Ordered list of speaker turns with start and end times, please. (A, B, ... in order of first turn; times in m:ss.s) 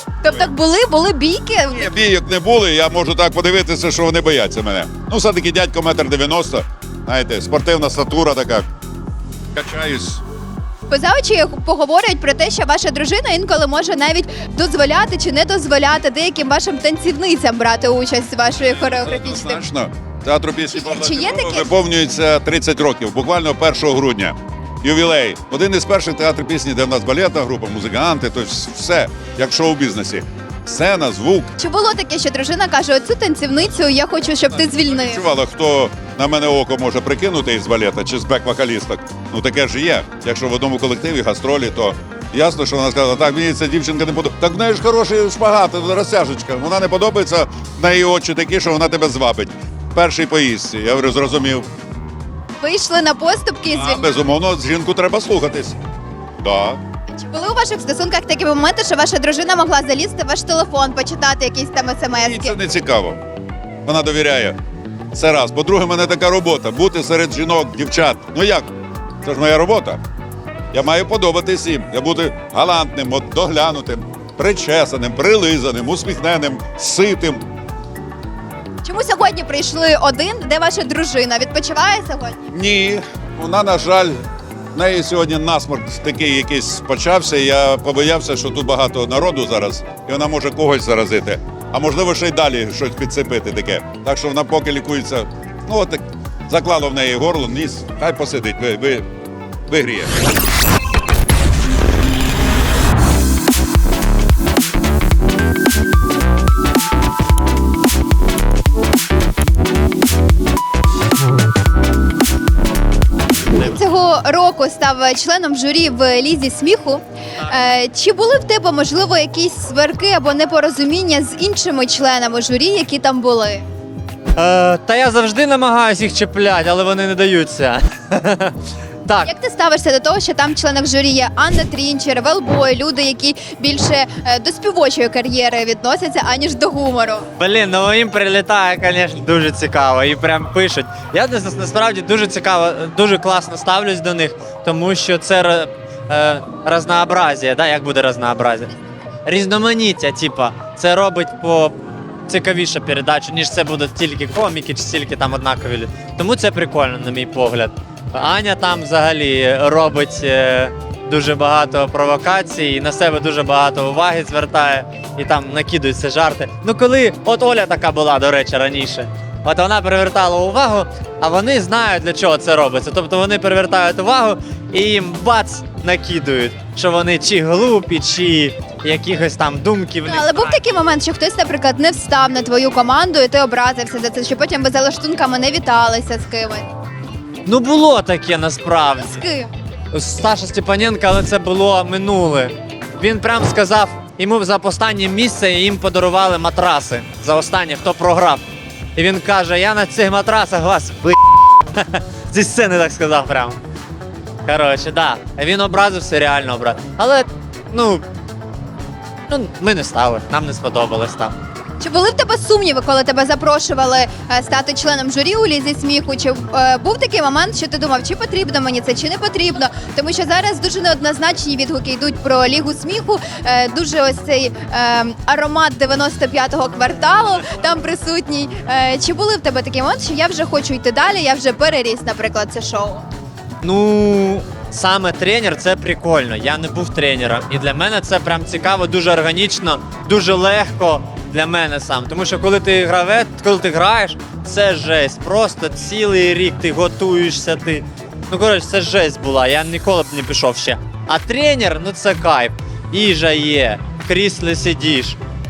0:00.2-0:01.9 A
0:01.7-0:08.7 B
0:09.5-0:10.2 B
0:10.9-0:19.6 A
0:18.6-0:31.5 B
0:20.7-0:21.7 A
0:31.6-0:35.2 A
0:34.6-0:51.7 B
0:52.6-0:54.1 A
0:53.7-0:55.8 B
0:56.4-0:56.8 B
0:57.1-1:02.6 A
1:02.2-1:03.2 B
1:03.8-1:04.6 B
1:05.1-1:08.7 B
1:09.2-1:10.0 B
1:10.7-1:17.4 B
1:18.8-1:22.4 A
1:22.5-1:24.2 B
1:24.7-1:39.0 B
1:39.7-1:40.1 B
1:53.6-2:03.6 A
2:04.4-2:09.3 C
2:09.2-2:17.2 A
2:17.4-2:28.7 C
2:29.2-2:31.8 C
2:32.3-3:00.6 C
3:00.0-3:06.6 A
3:07.4-3:09.2 C
3:09.0-3:09.5 A
3:09.9-3:18.4 C
3:19.0-3:21.2 C
3:21.7-3:23.6 C
3:24.4-3:28.0 C
3:29.3-3:31.3 C
3:31.8-3:53.0 A
3:53.6-4:15.2 C